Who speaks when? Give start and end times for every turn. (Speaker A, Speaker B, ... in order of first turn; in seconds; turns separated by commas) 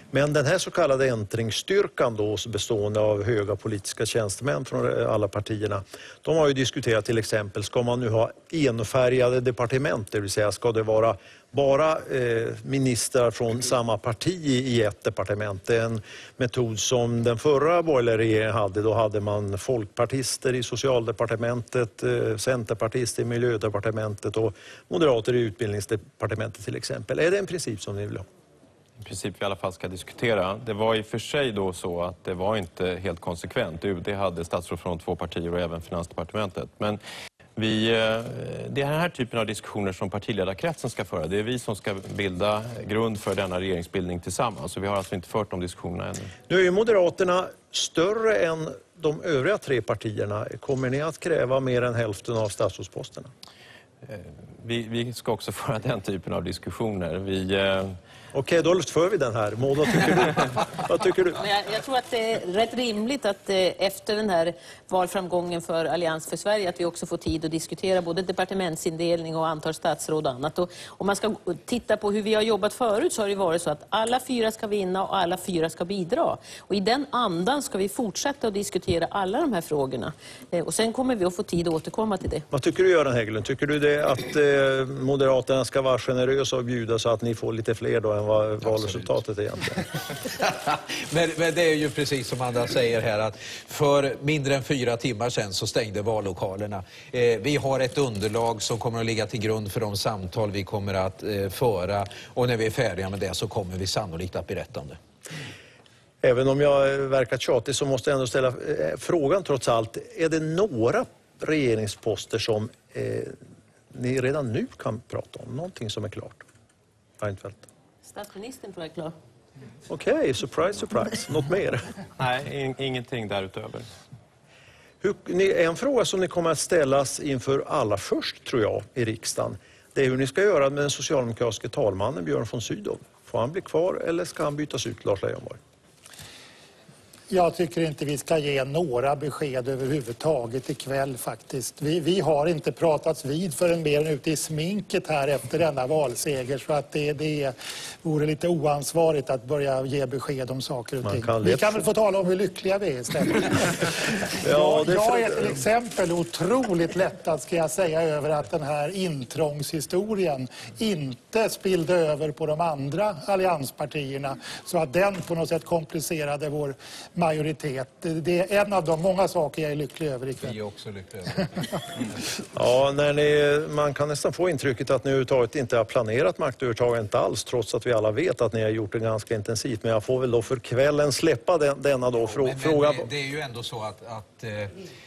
Speaker A: 0.1-28.3, Speaker B: 29.0-37.0, Speaker B: 37.6-46.3, Speaker A: 46.5-53.3, Speaker B: 54.0-58.0, Speaker A: 58.3-61.4, Speaker C: 61.4-82.5, Speaker A: 82.5-89.8, Speaker D: 88.7-89.1, Speaker D: 90.2-105.0, Speaker A: 106.2-113.3, Speaker A: 113.9-116.4, Speaker A: 117.2-117.7, Speaker C: 118.0-119.2, Speaker A: 119.9-121.9, Speaker B: 122.2-123.9, Speaker A: 125.0-135.6, Speaker E: 137.3-153.8, Speaker A: 151.1-151.7, Speaker A: 154.4-155.6, Speaker E: 154.5-170.5, Speaker D: 170.4-171.6, Speaker A: 172.6-183.1, Speaker D: 182.2-184.8